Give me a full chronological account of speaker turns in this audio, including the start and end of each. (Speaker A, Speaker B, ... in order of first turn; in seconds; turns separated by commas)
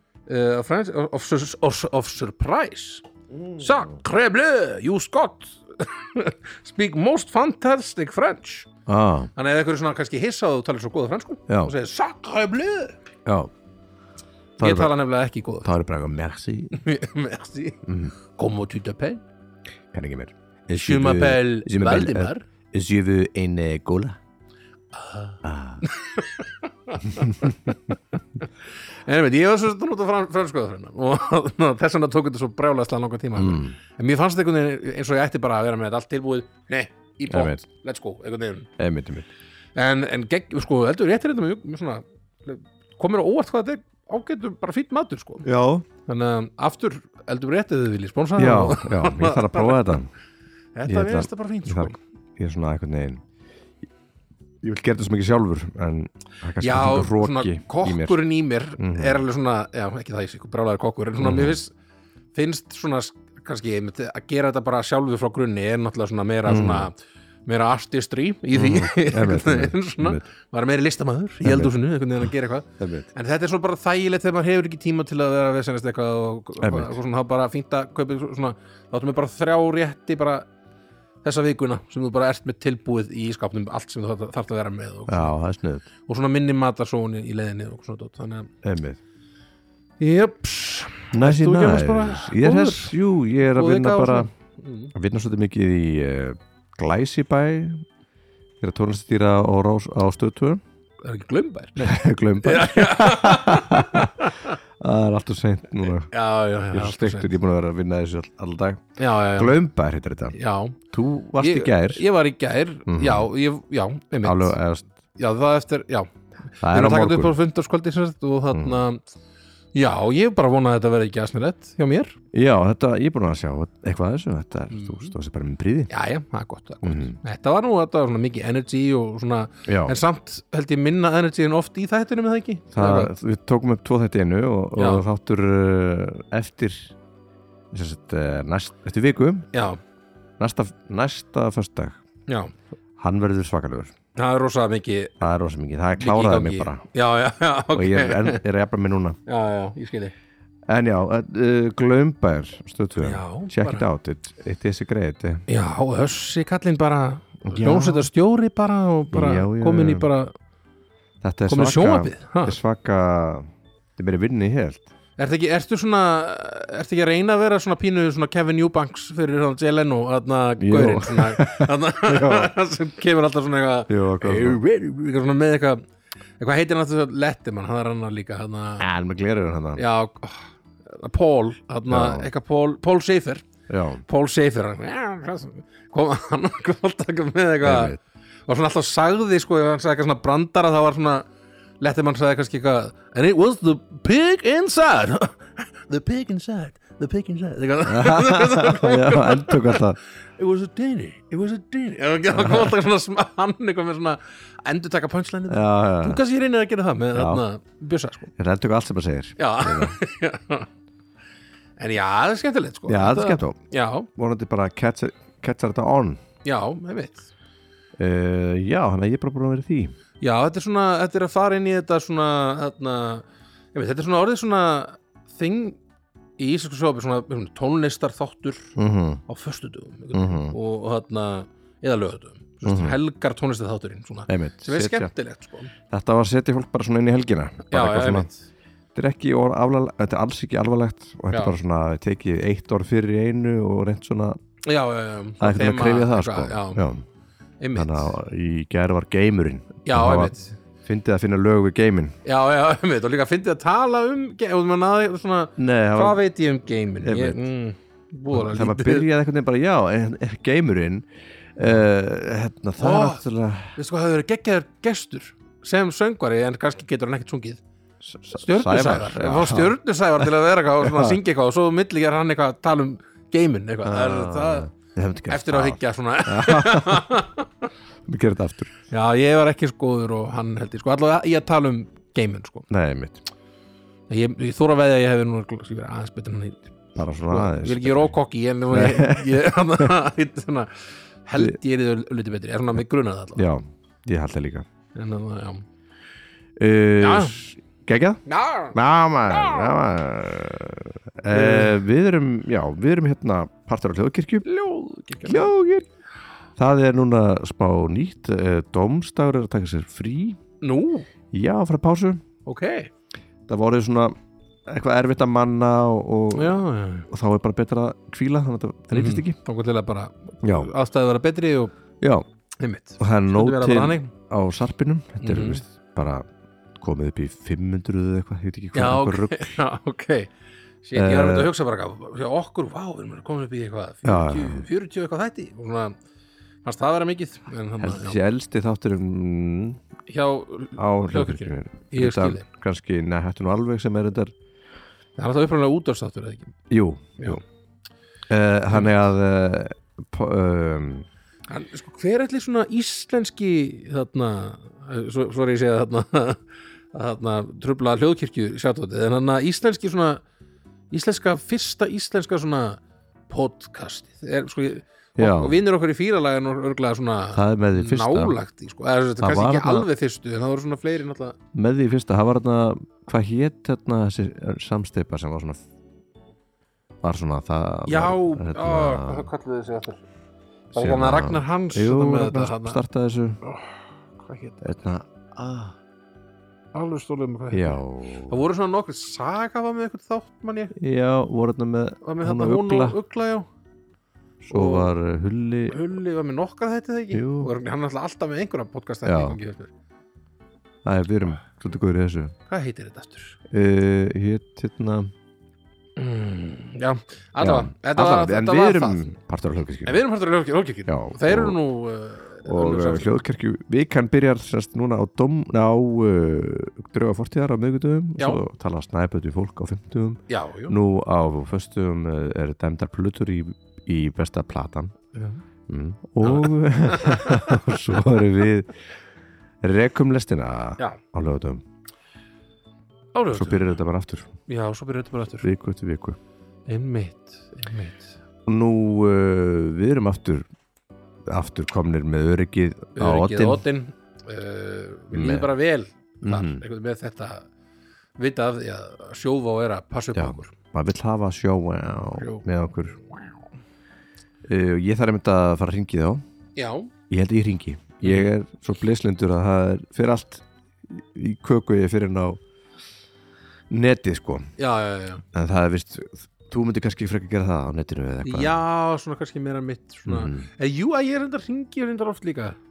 Speaker A: 0.3-3.0, Speaker B: 3.4-4.0, Speaker A: 3.6-8.7, Speaker B: 8.8-9.3, Speaker A: 9.3-12.9, Speaker B: 11.5-11.7, Speaker B: 13.2-13.5, Speaker B: 14.6-14.9, Speaker A: 14.6-15.7, Speaker B: 15.6-16.8, Speaker A: 16.7-17.8, Speaker B: 17.9-18.1, Speaker A: 18.3-19.2, Speaker B: 19.9-24.2, Speaker A: 20.7-22.4, Speaker A: 24.9-28.5, Speaker B: 25.4-25.8, Speaker B: 27.1-27.7, Speaker A: 29.0-38.7, Speaker B: 33.4-33.8, Speaker B: 37.3-37.6, Speaker B: 38.8-39.3, Speaker A: 39.7-45.5, Speaker B: 45.4-45.9, Speaker A: 46.0-50.0, Speaker B: 48.4-50.1, Speaker A: 50.8-52.0, Speaker B: 50.9-53.2, Speaker B: 54.6-58.2, Speaker A: 56.6-61.7, Speaker B: 58.8-59.2, Speaker B: 61.2-61.6, Speaker A: 62.3-66.9, Speaker B: 66.5-66.9, Speaker A: 67.5-80.5, Speaker B: 68.5-70.2, Speaker B: 71.4-72.3, Speaker B: 72.8-73.1, Speaker B: 76.6-77.0, Speaker A: 81.2-85.3, Speaker B: 85.1-85.9, Speaker A: 86.0-88.5, Speaker B: 88.6-89.0, Speaker A: 90.0-94.9, Speaker B: 91.1-94.3, Speaker B: 94.9-97.8, Speaker B: 98.6-100.6, Speaker A: 101.0-104.6, Speaker B: 101.8-106.1, Speaker A: 106.0-107.3, Speaker B: 106.7-110.4, Speaker A: 109.0-109.6, Speaker A: 110.3-110.8, Speaker B: 110.9-112.0, Speaker A: 111.4-114.6, Speaker B: 112.9-113.3, Speaker B: 114.2-114.9, Speaker A: 115.1-119.0, Speaker B: 116.6-117.3, Speaker B: 118.5-118.8, Speaker A: 119.7-122.2, Speaker B: 122.3-125.9, Speaker A: 124.7-125.1, Speaker A: 125.9-133.1, Speaker B: 126.8-127.2, Speaker B: 129.7-130.0, Speaker B: 132.7-136.9, Speaker A: 134.8-135.0, Speaker B: 137.7-139.5, Speaker A: 139.5-139.8, Speaker B: 140.4-142.0, Speaker A: 142.3-142.5, Speaker B: 143.0-143.9, Speaker A: 144.2-145.2, Speaker B: 145.2-146.8, Speaker A: 146.0-148.4, Speaker B: 147.7-149.2, Speaker A: 149.2-150.1, Speaker B: 150.7-155.4, Speaker A: 153.0-153.8, Speaker A: 155.5-160.3, Speaker B: 157.4-158.1, Speaker B: 159.1-160.1, Speaker B: 161.2-164.9, Speaker A: 161.5-162.6, Speaker A: 165.2-175.8, Speaker B: 170.6-172.5, Speaker B: 173.9-174.6, Speaker A: 176.4-178.8, Speaker B: 178.8-179.8, Speaker A: 179.7-183.4, Speaker B: 181.9-182.3, Speaker B: 183.7-184.0, Speaker A: 184.0-187.9, Speaker B: 187.6-188.0, Speaker A: 188.5-191.2, Speaker A: 191.8-208.3, Speaker B: 197.8-200.0, Speaker B: 202.3-202.7, Speaker B: 205.5-206.2, Speaker B: 207.1-207.4, Speaker B: 208.4-210.0, Speaker A: 209.4-210.7, Speaker A: 211.8-214.1, Speaker B: 212.9-213.6, Speaker B: 214.1-216.2, Speaker A: 216.4-217.3, Speaker B: 218.0-219.9, Speaker A: 220.2-225.8, Speaker A: 226.4-228.8, Speaker B: 228.8-229.2, Speaker A: 229.3-235.7, Speaker B: 230.1-230.6, Speaker B: 232.6-233.0, Speaker B: 234.3-235.1, Speaker B: 235.9-238.3, Speaker A: 237.7-238.5, Speaker B: 238.9-244.4, Speaker A: 241.3-241.6, Speaker A: 244.6-246.8, Speaker B: 245.4-247.0, Speaker A: 247.6-248.1, Speaker B: 247.7-250.3, Speaker A: 249.8-250.6, Speaker B: 250.8-252.2, Speaker A: 252.2-259.1, Speaker B: 255.6-256.2, Speaker B: 257.0-257.4, Speaker B: 258.3-263.8, Speaker A: 262.8-267.6, Speaker B: 268.0-269.8, Speaker A: 268.3-274.7, Speaker B: 270.8-271.2, Speaker B: 273.8-277.1, Speaker A: 275.3-277.7, Speaker B: 278.1-278.8, Speaker A: 278.9-282.7, Speaker B: 282.7-283.2, Speaker A: 284.1-286.6, Speaker B: 286.9-288.1, Speaker A: 287.2-293.5, Speaker B: 288.7-289.9, Speaker B: 293.4-294.7, Speaker A: 294.9-295.6, Speaker B: 296.6-304.4, Speaker A: 297.0-297.3, Speaker A: 298.2-298.8, Speaker A: 299.3-299.7, Speaker A: 301.3-301.8, Speaker A: 304.4-305.5, Speaker B: 305.2-305.9, Speaker B: 306.6-310.4, Speaker A: 310.6-311.1, Speaker B: 311.3-312.2, Speaker A: 312.4-312.9, Speaker B: 313.5-314.1, Speaker B: 314.6-319.4, Speaker A: 316.3-317.1, Speaker A: 318.9-321.7, Speaker B: 320.4-320.7, Speaker B: 322.0-322.2, Speaker A: 322.6-324.1, Speaker B: 323.0-326.2, Speaker A: 325.2-325.6, Speaker B: 326.8-329.6, Speaker A: 328.7-330.3, Speaker A: 330.8-335.9, Speaker B: 330.9-331.5, Speaker B: 334.0-334.6, Speaker A: 336.6-338.2, Speaker B: 337.8-339.8, Speaker A: 340.1-342.4, Speaker B: 340.8-344.3, Speaker A: 345.2-346.5, Speaker B: 346.7-347.4, Speaker B: 348.3-351.1, Speaker A: 351.5-360.2, Speaker A: 360.9-371.4, Speaker B: 365.2-365.6, Speaker B: 367.3-368.4, Speaker B: 369.2-369.9, Speaker B: 371.5-375.6, Speaker B: 377.0-379.3, Speaker A: 377.9-380.0, Speaker A: 380.7-382.8, Speaker B: 380.7-383.4, Speaker A: 383.4-384.6, Speaker B: 384.6-385.8, Speaker A: 386.7-390.7, Speaker B: 387.5-388.4, Speaker B: 390.8-393.0, Speaker A: 392.0-393.5, Speaker B: 394.4-395.8, Speaker A: 394.5-394.9, Speaker A: 395.7-399.7, Speaker B: 397.1-397.5, Speaker B: 399.0-399.4, Speaker B: 400.8-402.3, Speaker A: 402.5-403.4, Speaker B: 403.5-405.1, Speaker A: 406.0-409.1, Speaker B: 407.4-410.0, Speaker A: 409.8-413.2, Speaker B: 410.9-411.6, Speaker B: 412.4-424.9, Speaker A: 420.3-420.8, Speaker A: 425.1-425.4, Speaker B: 425.7-428.7, Speaker A: 426.2-428.0, Speaker B: 429.6-431.6, Speaker A: 433.1-433.8, Speaker B: 433.3-434.3, Speaker A: 434.5-435.5, Speaker B: 435.4-436.2, Speaker A: 436.7-438.1, Speaker B: 438.4-440.5, Speaker B: 441.3-443.6, Speaker A: 442.9-447.5, Speaker B: 445.1-445.5, Speaker B: 446.2-446.6, Speaker A: 448.2-450.5, Speaker B: 450.1-453.0, Speaker A: 452.1-452.4, Speaker B: 454.4-456.2, Speaker A: 456.6-456.9, Speaker B: 457.1-462.4, Speaker A: 458.0-458.3, Speaker B: 463.7-464.5, Speaker A: 464.6-465.2, Speaker B: 465.3-468.6, Speaker A: 468.2-472.6, Speaker B: 470.1-470.5